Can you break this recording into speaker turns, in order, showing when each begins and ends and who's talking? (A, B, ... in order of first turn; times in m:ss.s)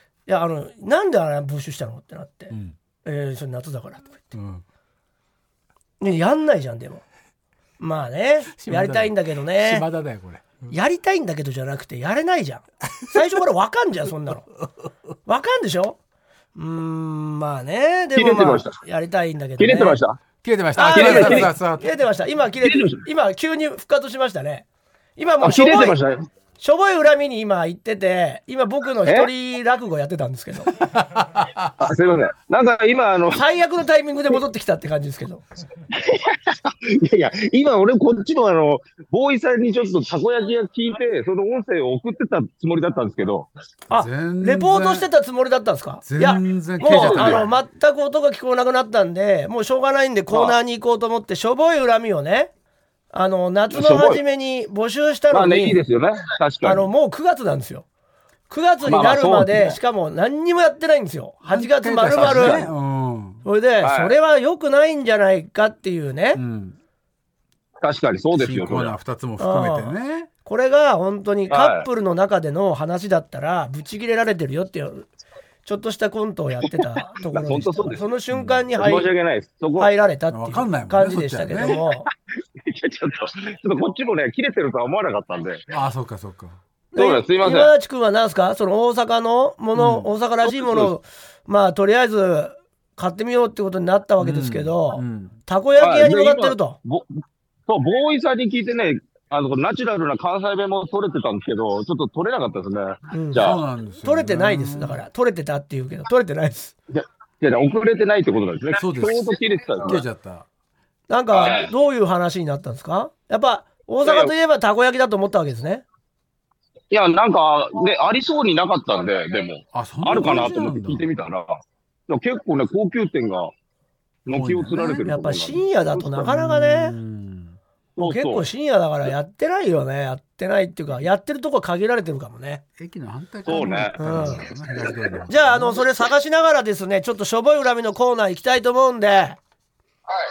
0:00.3-0:04.4 A
0:04.3-0:04.6 B
0:06.0-0:07.0 A
0:07.8-0:09.8 A
0:08.6-0:10.7 B
0:10.7-0:14.5 A
0:15.3-0:16.0 A
0:16.6-0:20.0 A
0:18.2-0:18.8 C
0:19.6-0:20.2 C
0:20.4-0:21.9 B
0:20.8-0:24.7 A
0:20.9-0:21.5 C
0:22.6-0:23.0 C
0:25.2-0:26.0 A
0:25.4-0:26.3 C
0:26.6-0:30.8 A
0:31.0-0:31.7 B
0:31.8-0:33.4 C
0:33.3-0:35.4 A
0:35.9-0:43.5 C
0:43.9-0:45.1 B
0:43.9-0:52.5 A
0:46.0-0:47.6 B
0:46.8-0:47.5 C
0:50.3-0:50.6 C
0:53.1-0:55.8 A
0:53.7-0:54.2 C
0:55.3-0:56.9 C
0:56.6-0:57.9 A
0:58.5-1:02.7 A
0:58.8-0:59.8 C
1:01.4-1:03.4 B
1:02.1-1:02.7 C
1:03.4-1:06.4 A
1:03.8-1:04.1 C
1:06.3-1:06.8 B
1:07.8-1:09.0 C
1:08.4-1:10.3 B
1:09.4-1:15.1 A
1:11.5-1:11.9 C
1:15.6-1:19.1 A
1:16.6-1:18.0 C
1:18.3-1:18.7 B
1:18.8-1:19.9 C
1:19.8-1:22.1 A
1:20.3-1:21.8 B
1:21.7-1:22.0 C
1:22.6-1:25.7 C
1:25.7-1:26.6 B
1:26.9-1:36.8 A
1:27.0-1:27.7 C
1:29.8-1:30.1 B
1:30.4-1:30.9 C
1:34.2-1:35.4 B
1:35.8-1:43.6 C
1:43.1-1:46.8 A
1:43.4-1:45.0 B
1:46.9-1:50.0 C
1:48.8-1:50.5 B
1:51.1-1:55.8 A
1:51.3-1:51.7 C
1:54.0-1:54.3 C
1:56.9-2:03.5 C
1:59.7-2:01.1 B
2:00.1-2:00.5 A
2:04.3-2:06.2 C
2:04.3-2:05.0 B
2:04.8-2:07.0 A
2:06.2-2:07.6 B
2:08.0-2:08.5 C
2:08.0-2:12.6 A
2:12.8-2:15.8 B
2:13.4-2:14.5 C
2:14.0-2:14.5 A
2:15.3-2:19.4 A